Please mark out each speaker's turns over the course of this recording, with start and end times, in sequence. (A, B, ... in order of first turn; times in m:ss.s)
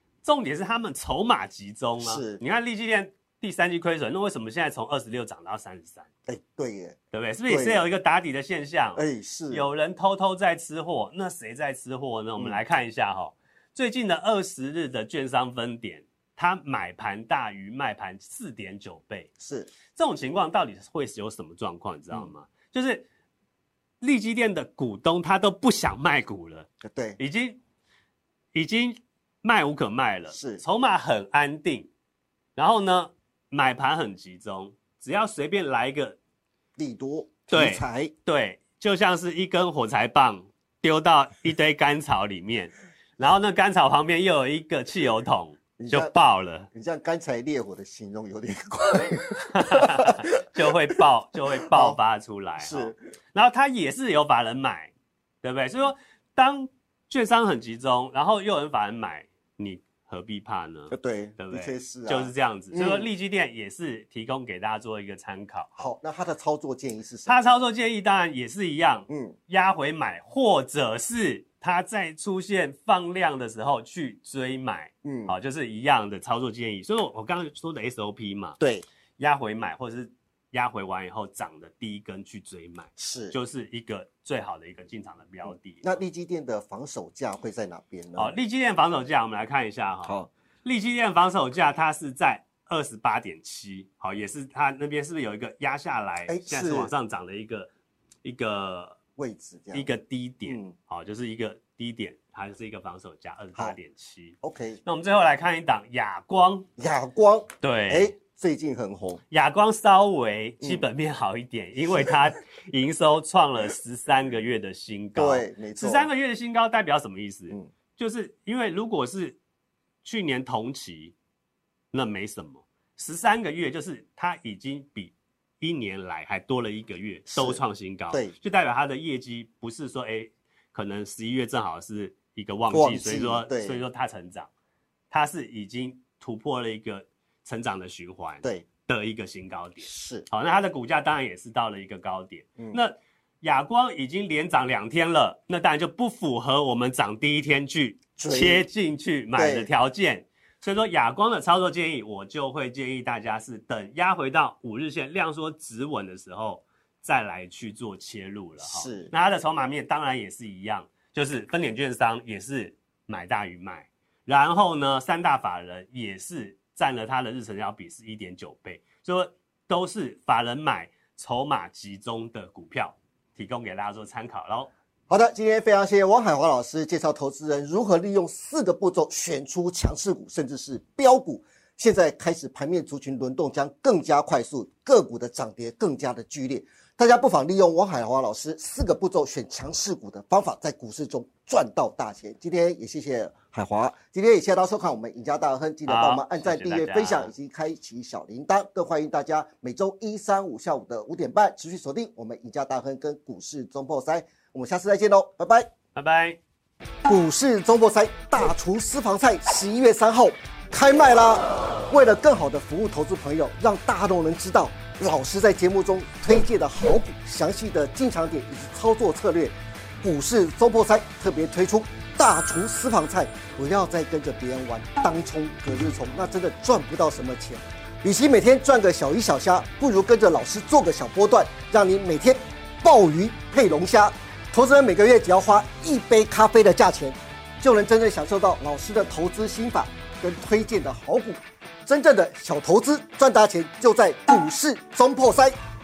0:00.2-0:06.1 A
0:02.0-0:02.4 B
0:06.3-0:07.0 B
0:07.1-0:19.3 A
0:07.5-0:07.8 B
0:09.0-0:09.7 B
0:12.4-0:12.6 B
0:19.4-0:19.7 B
0:19.9-0:23.1 A
0:24.0-0:26.7 A
0:26.8-0:27.2 B
0:27.2-0:27.6 A
0:28.5-0:31.9 A
0:30.3-0:30.6 B
0:32.6-0:36.2 A
0:36.8-0:38.1 B
0:37.5-0:46.7 A
0:45.8-0:46.1 B
0:46.7-0:50.3 B
0:49.5-0:54.9 A
0:51.7-0:52.0 B
0:52.6-0:53.0 B
0:55.4-1:05.9 A
1:00.9-1:03.1 B
1:05.8-1:07.4 B
1:07.3-1:18.6 A
1:09.1-1:09.4 B
1:15.0-1:15.4 B
1:18.6-1:18.8 B
1:19.2-1:26.0 A
1:23.0-1:23.4 B
1:25.5-1:28.4 B
1:28.2-1:37.7 A
1:30.0-1:30.3 B
1:36.3-1:36.9 B
1:38.2-1:39.0 A
1:39.2-1:39.9 B
1:39.7-1:46.7 A
1:40.5-1:40.8 B
1:44.4-1:44.8 B
1:46.8-1:49.2 B
1:47.6-1:48.2 A
1:49.3-1:59.4 A
1:50.6-1:50.9 B
1:55.2-1:56.1 B
2:00.0-2:01.1 A
2:01.9-2:14.5 A
2:07.3-2:08.3 B
2:12.7-2:13.8 B
2:15.1-2:54.7 A
2:19.8-2:20.3 B
2:28.2-2:28.6 B
2:29.4-2:29.7 B
2:38.6-2:39.1 B
2:55.1-3:25.7 B
3:15.9-3:17.3 A
3:26.0-3:26.4 A
3:27.0-4:05.6 B